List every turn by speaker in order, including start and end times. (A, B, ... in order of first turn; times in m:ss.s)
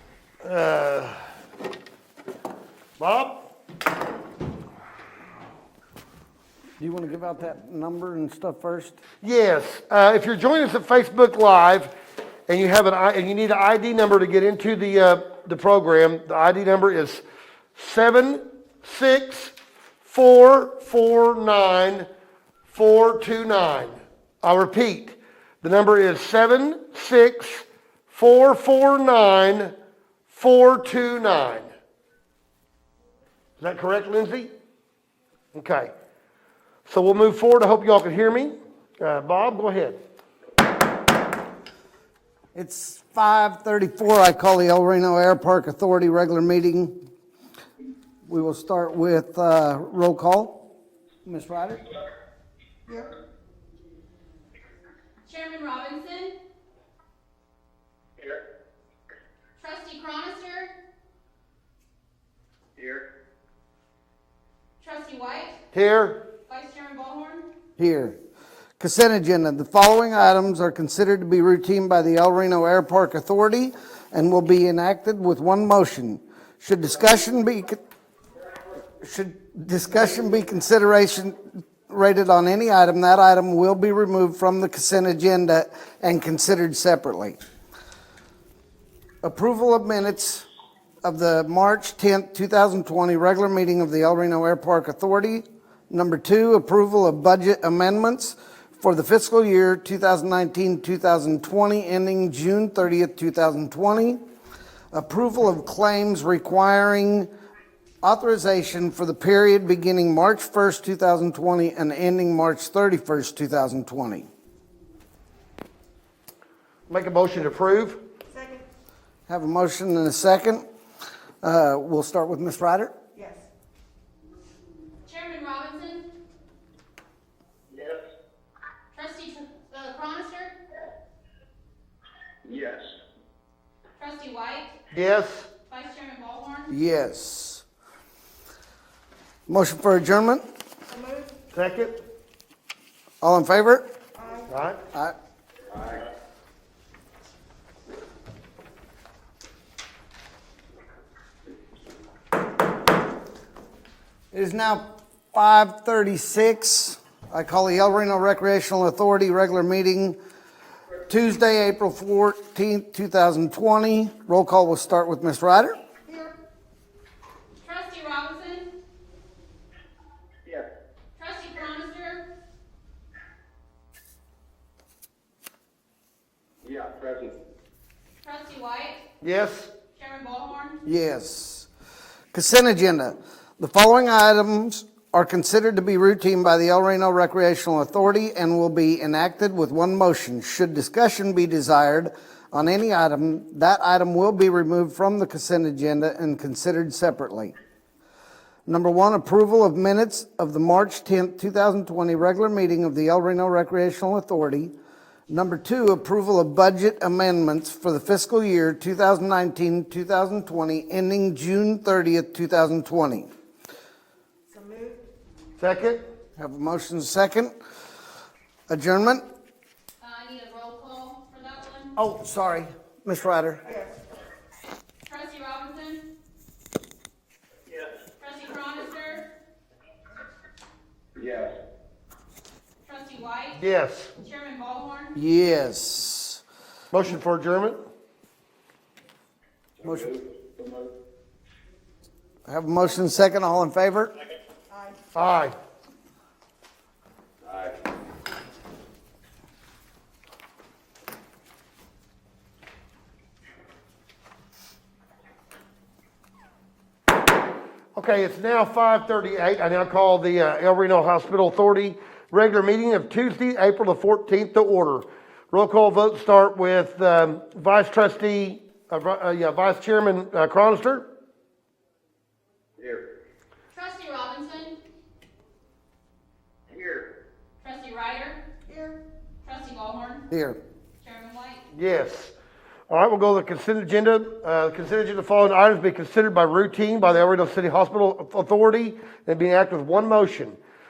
0:00.4-0:01.3 A
0:03.0-0:03.4 A
0:06.8-0:09.0 B
0:09.2-0:11.9 A
0:12.5-0:17.2 A
0:17.7-0:22.1 A
0:22.7-0:29.7 A
0:30.3-0:31.7 A
0:33.6-0:34.5 A
0:35.5-0:35.9 A
0:36.8-0:40.0 A
0:42.5-0:47.0 B
0:48.2-0:50.6 B
0:51.2-0:51.8 B
0:55.2-0:56.4 C
0:59.6-1:00.7 C
1:02.8-1:03.0 D
1:04.8-1:05.6 C
1:05.7-1:06.2 A
1:06.5-1:07.4 C
1:07.8-1:08.2 B
1:08.8-1:17.8 B
1:19.0-1:27.4 B
1:29.2-1:30.4 B
1:31.0-1:44.2 B
1:44.9-1:47.3 B
1:48.0-1:54.3 B
1:56.9-1:58.0 A
1:58.3-1:58.6 E
1:59.3-2:00.6 B
2:01.4-2:02.9 B
2:03.1-2:03.4 E
2:05.0-2:06.0 C
2:07.7-2:08.0 D
2:08.9-2:10.5 C
2:12.4-2:12.9 D
2:14.0-2:14.8 C
2:14.9-2:15.5 A
2:15.7-2:16.7 C
2:16.7-2:17.6 B
2:19.5-2:20.4 B
2:20.9-2:21.3 E
2:21.5-2:22.0 A
2:23.2-2:23.9 B
2:24.2-2:24.5 E
2:24.5-2:24.8 A
2:34.3-2:40.2 B
2:41.1-2:45.8 B
2:47.6-2:48.7 C
2:51.2-2:52.2 C
2:56.6-2:57.4 D
2:58.2-2:59.0 C
2:59.2-2:59.7 A
2:59.9-3:00.8 C
3:00.8-3:01.7 B
3:02.3-3:17.5 B
3:18.7-3:24.7 B
3:25.3-3:33.3 B
3:34.5-3:35.0 E
3:35.6-3:36.0 A
3:36.4-3:37.5 B
3:38.7-3:39.2 B
3:40.0-3:41.9 C
3:42.0-3:43.6 B
3:45.0-3:46.0 C
3:48.2-3:49.3 C
3:51.2-3:51.5 D
3:52.8-3:53.6 C
3:53.6-3:54.1 A
3:54.2-3:55.1 C
3:55.1-3:56.4 B
3:56.9-3:57.8 A
3:59.8-4:00.2 B
3:59.8-4:00.9 D
4:02.5-4:04.1 B
4:04.7-4:05.0 E
4:05.1-4:05.5 A
4:07.4-4:07.7 D
4:17.9-4:31.1 A
4:32.8-4:33.0 D
4:33.7-4:34.8 C
4:36.7-4:37.1 D
4:37.6-4:38.4 C
4:38.7-4:38.9 E
4:39.4-4:40.2 C
4:40.3-4:40.6 B
4:41.0-4:41.6 C
4:41.7-4:42.3 A
4:42.9-4:50.6 A